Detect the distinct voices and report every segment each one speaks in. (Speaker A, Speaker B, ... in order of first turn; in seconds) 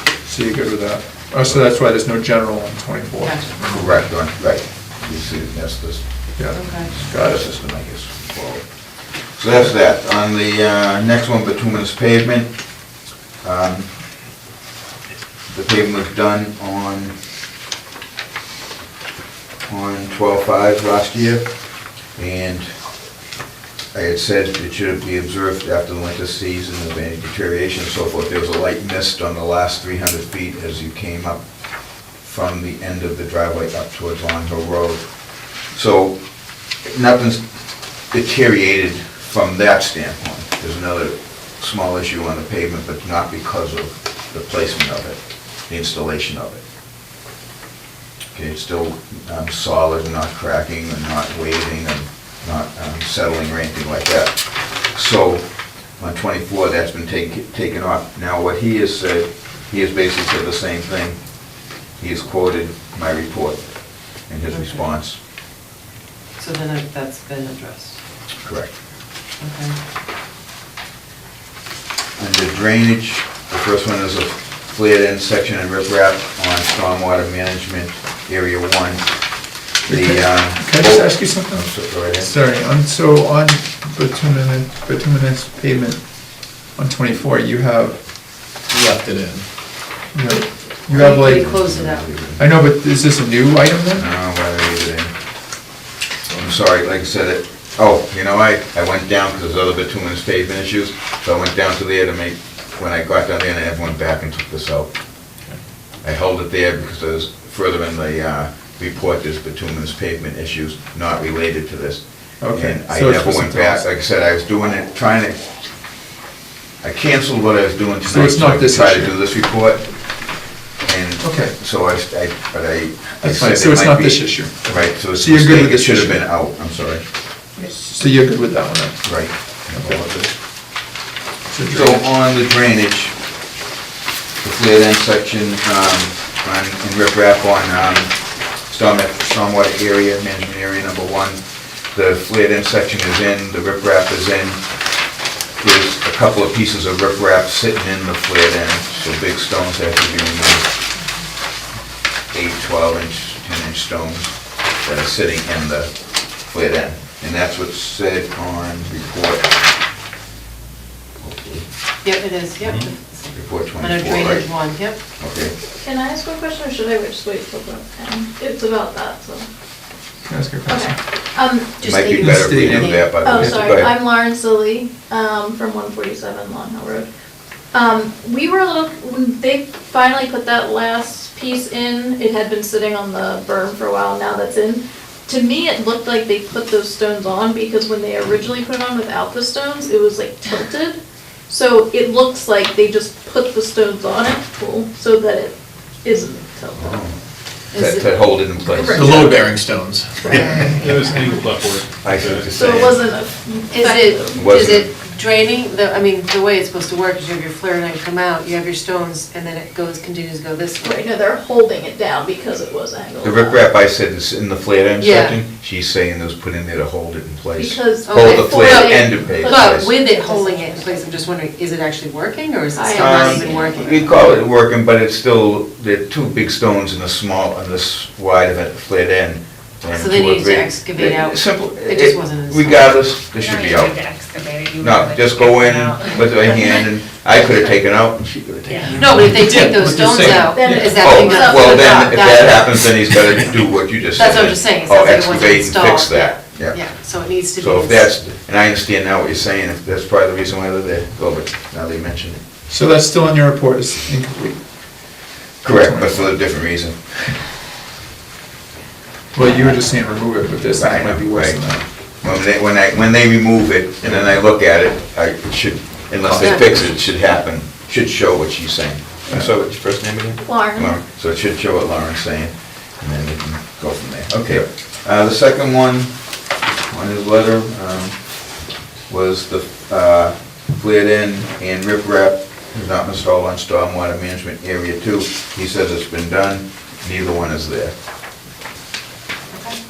Speaker A: 0.2-3.9, 6.4-7.5, 79.8-88.0, 90.1-91.6, 92.4-94.1, 112.4-113.8, 118.0-119.1, 121.2-121.5, 123.2-126.2, 127.6-130.0, 131.5-132.0, 170.3-171.0, 172.1-173.7, 239.1-241.0, 252.7-254.7, 255.7-256.3, 259.3-261.9
Speaker B: 3.2-3.5, 6.5-6.9, 64.5-64.8, 66.4-68.0, 69.4-69.8, 90.3-92.0, 162.0-165.0, 171.8-173.2, 197.7-198.2, 200.3-200.9, 203.7-211.0, 215.0-215.4, 218.1-224.3, 229.9-233.0, 238.9-243.2, 244.2-248.2, 266.2-267.1
Speaker C: 3.6-12.6, 13.4-13.9, 15.5-17.1, 19.7-21.5, 22.1-22.7, 23.9-36.2, 36.8-37.4, 38.1-46.6, 48.3-65.2, 68.4-68.7, 72.2-79.2, 79.8-82.3, 91.0-92.4, 94.0-95.1, 96.4-104.9, 106.0-115.4, 116.8-120.3, 120.8-127.0, 129.0-130.3, 131.7-133.2, 134.4-144.6, 145.6-150.7, 152.3-159.5, 161.2-161.7, 163.3-164.6, 165.2-165.5, 171.8-173.9, 196.8-197.2, 197.7-199.5, 202.0-203.0, 204.3-204.9, 213.2-219.9, 222.9-234.1, 234.8-239.4, 241.0-246.9, 247.4-252.4, 255.6-257.0, 260.8-276.1, 276.9-278.4, 279.1-287.9
Speaker D: 88.7-89.4, 199.0-200.2
Speaker E: 165.8-169.5, 170.7-172.0, 173.2-177.1, 177.7-197.0, 198.7-199.3, 200.2-201.3, 202.5-204.4, 210.8-213.6, 217.6-221.3, 222.7-224.0, 240.5-242.1, 270.4-271.0
Speaker F: 200.4-202.7
Speaker G: 233.3-236.9, 238.7-239.1